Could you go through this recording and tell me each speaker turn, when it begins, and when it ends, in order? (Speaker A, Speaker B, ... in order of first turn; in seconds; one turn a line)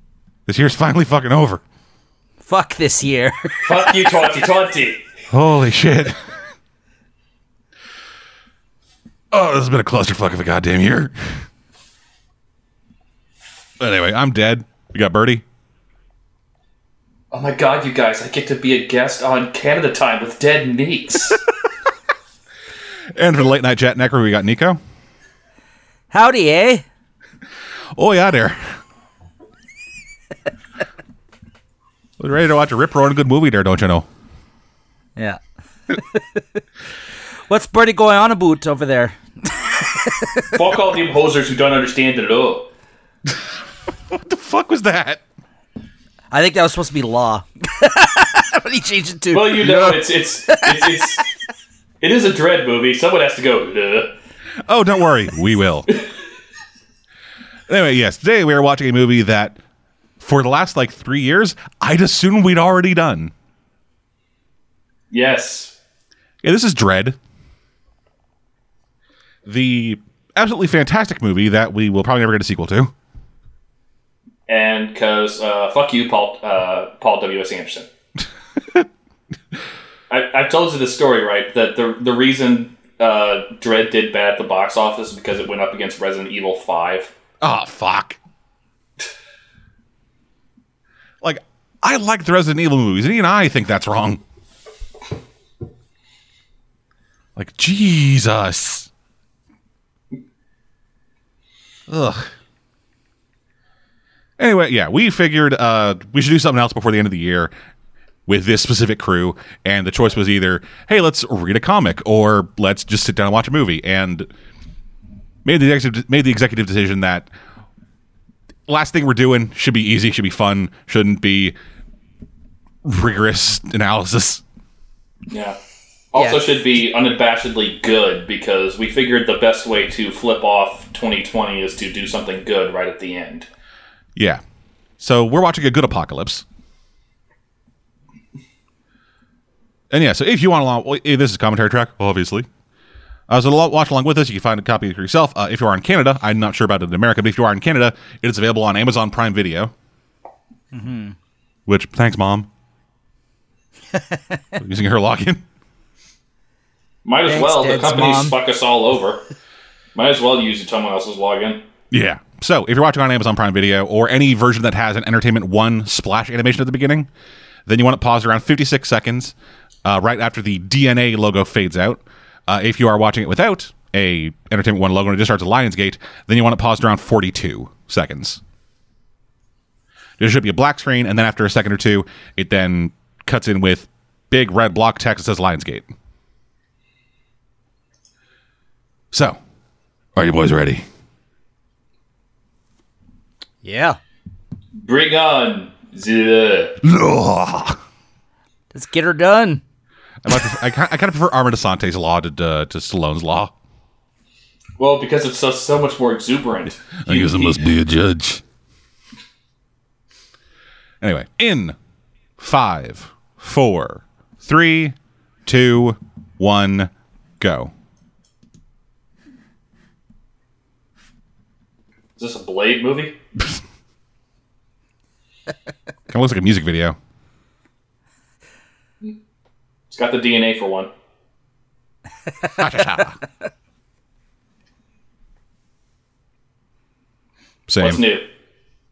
Speaker A: 0.5-1.6
Speaker B: 2.4-4.2
Speaker C: 3.6-5.0
Speaker A: 5.3-6.4
Speaker A: 9.3-11.4
Speaker A: 13.8-15.4
Speaker C: 17.3-21.4
Speaker A: 23.1-24.8
Speaker B: 26.1-26.8
Speaker A: 27.9-28.8
Speaker A: 32.2-34.1
Speaker B: 35.2-36.6
Speaker B: 37.5-40.6
Speaker C: 40.5-42.7
Speaker A: 44.1-45.2
Speaker B: 46.3-51.2
Speaker C: 49.3-51.2
Speaker C: 52.0-54.1
Speaker A: 54.7-55.9
Speaker A: 57.7-59.6
Speaker A: 60.2-63.3
Speaker C: 65.1-65.7
Speaker A: 66.4-67.2
Speaker A: 69.5-72.9
Speaker C: 74.5-77.9
Speaker C: 80.1-87.1
Speaker A: 87.4-88.2
Speaker A: 91.2-94.2
Speaker A: 97.4-98.9
Speaker A: 101.9-102.3
Speaker A: 104.4-107.5
Speaker A: 108.3-114.3
Speaker A: 115.5-117.3
Speaker A: 118.7-121.5
Speaker A: 122.8-124.4
Speaker C: 125.3-125.6
Speaker C: 126.1-133.5
Speaker B: 126.2-126.4
Speaker A: 134.2-134.4
Speaker A: 135.0-136.4
Speaker A: 139.9-142.5
Speaker A: 143.3-149.7
Speaker B: 150.7-151.2
Speaker A: 151.7-152.5
Speaker B: 153.9-154.4
Speaker A: 154.6-155.4
Speaker C: 157.0-159.2
Speaker B: 157.3-158.4
Speaker C: 159.9-161.6
Speaker A: 161.9-167.1
Speaker A: 167.7-178.4
Speaker A: 180.2-185.9
Speaker A: 189.1-189.4
Speaker A: 190.2-190.8
Speaker B: 193.6-194.0
Speaker C: 194.8-196.8
Speaker A: 196.8-197.8
Speaker B: 198.7-199.6
Speaker A: 200.2-203.5
Speaker C: 204.8-207.7
Speaker A: 207.0-208.4
Speaker A: 211.0-211.8
Speaker A: 212.4-217.7
Speaker C: 222.2-223.2
Speaker A: 226.1-227.0
Speaker C: 229.9-230.9
Speaker B: 232.5-233.0
Speaker A: 232.6-233.2
Speaker A: 237.7-238.0
Speaker C: 237.8-238.2